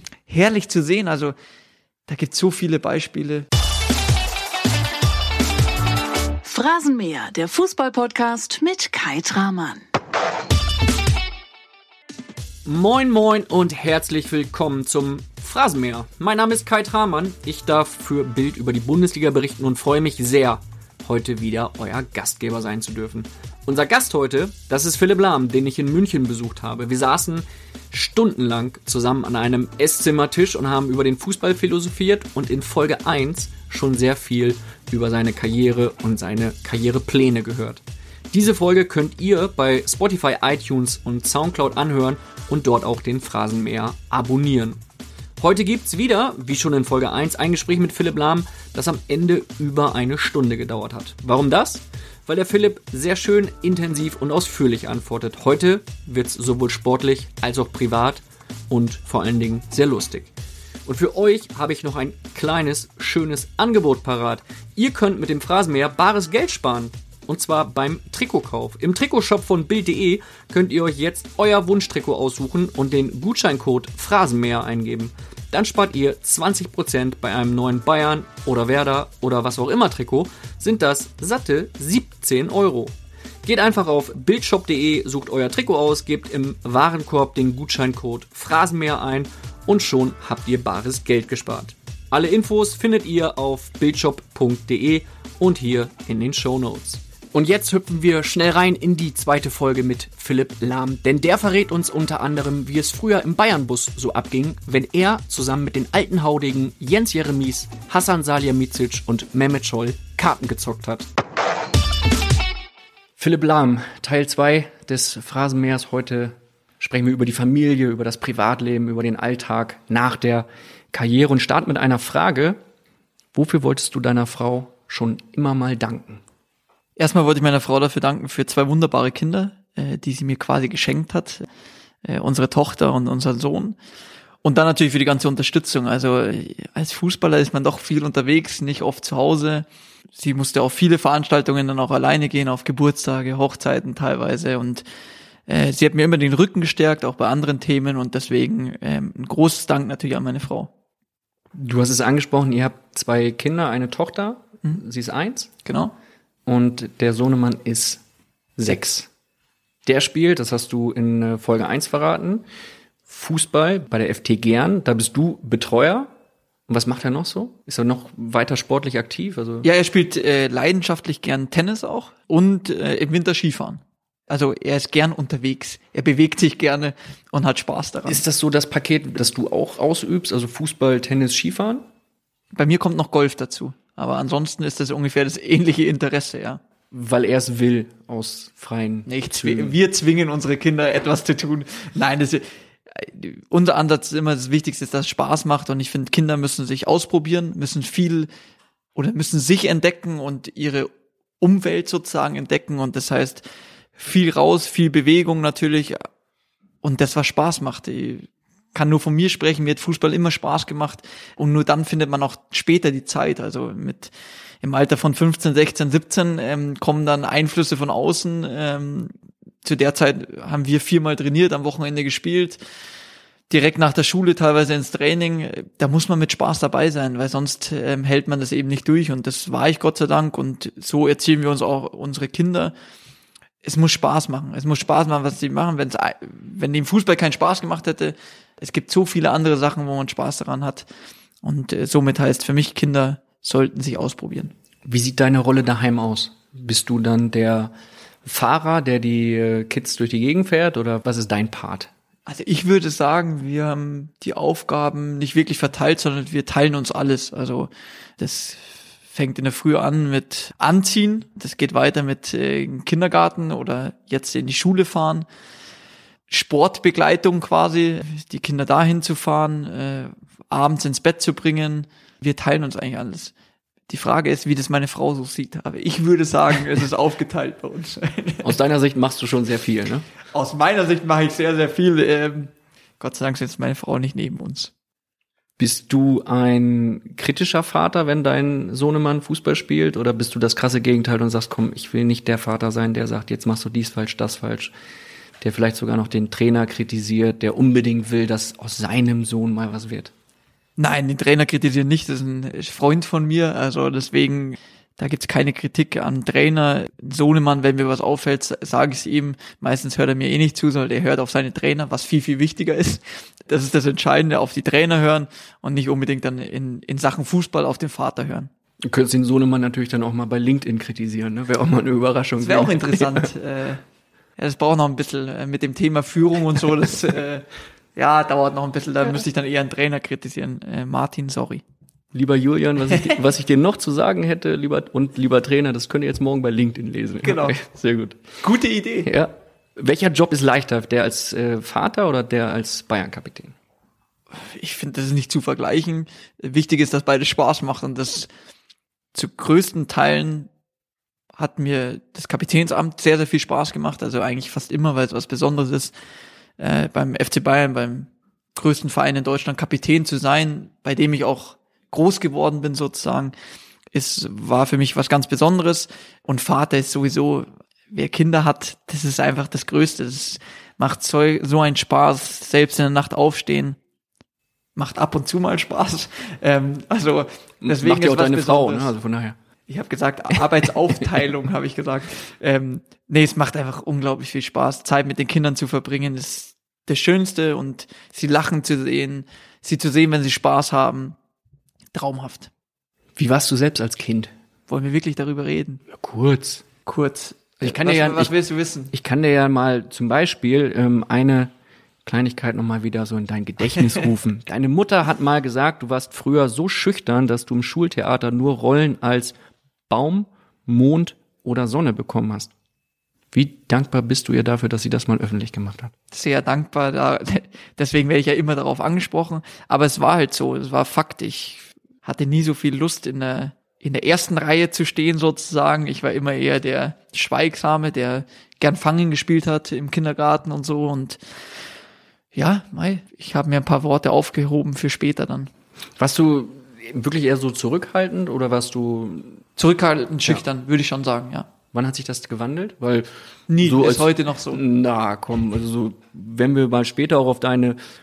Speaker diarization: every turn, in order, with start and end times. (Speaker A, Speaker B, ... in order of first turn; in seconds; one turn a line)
Speaker A: 0.3-1.4
Speaker A: 2.1-3.5
Speaker B: 6.4-9.9
Speaker C: 12.7-44.8
Speaker C: 45.4-60.3
Speaker C: 60.9-111.1
Speaker C: 113.2-122.6
Speaker C: 123.3-126.2
Speaker A: 127.0-131.5
Speaker A: 132.1-133.8
Speaker A: 134.4-144.8
Speaker A: 145.5-150.7
Speaker C: 151.5-155.5
Speaker A: 155.7-155.9
Speaker C: 156.5-158.0
Speaker C: 158.6-159.1
Speaker C: 159.8-162.4
Speaker C: 163.1-166.1
Speaker C: 166.7-169.7
Speaker A: 169.6-178.2
Speaker C: 178.1-181.9
Speaker A: 182.5-186.6
Speaker C: 186.9-189.8
Speaker A: 189.1-198.3
Speaker A: 198.9-200.9
Speaker A: 201.4-203.4
Speaker A: 204.0-206.0
Speaker A: 206.8-214.1
Speaker A: 214.6-219.1
Speaker A: 219.7-222.6
Speaker A: 223.5-232.7
Speaker A: 233.6-240.9
Speaker A: 241.4-244.5
Speaker C: 244.8-247.7
Speaker C: 248.2-251.9
Speaker A: 252.3-265.3
Speaker A: 266.3-273.3
Speaker A: 273.9-278.5
Speaker C: 278.4-280.1
Speaker A: 280.3-284.7
Speaker C: 285.6-294.7
Speaker C: 295.4-300.1
Speaker A: 300.8-318.5
Speaker C: 318.9-323.3
Speaker A: 322.4-323.8
Speaker A: 324.4-331.6
Speaker C: 332.1-338.2
Speaker A: 337.2-337.6
Speaker A: 338.4-339.1
Speaker C: 339.0-343.6
Speaker A: 344.3-348.3
Speaker A: 349.1-350.5
Speaker A: 351.4-355.9
Speaker A: 356.6-363.3
Speaker A: 363.9-373.8
Speaker A: 374.8-378.9
Speaker C: 377.6-379.4
Speaker A: 379.7-391.1
Speaker A: 391.9-392.5
Speaker C: 393.2-394.3
Speaker A: 394.7-395.8
Speaker C: 395.9-396.6
Speaker A: 396.9-398.9
Speaker C: 397.6-398.3
Speaker C: 398.9-401.5
Speaker C: 402.1-409.4
Speaker C: 409.9-412.5
Speaker C: 413.3-415.9
Speaker A: 416.1-431.2
Speaker A: 432.3-435.5
Speaker C: 436.0-439.4
Speaker A: 439.6-441.5
Speaker C: 441.7-447.8
Speaker A: 443.5-444.6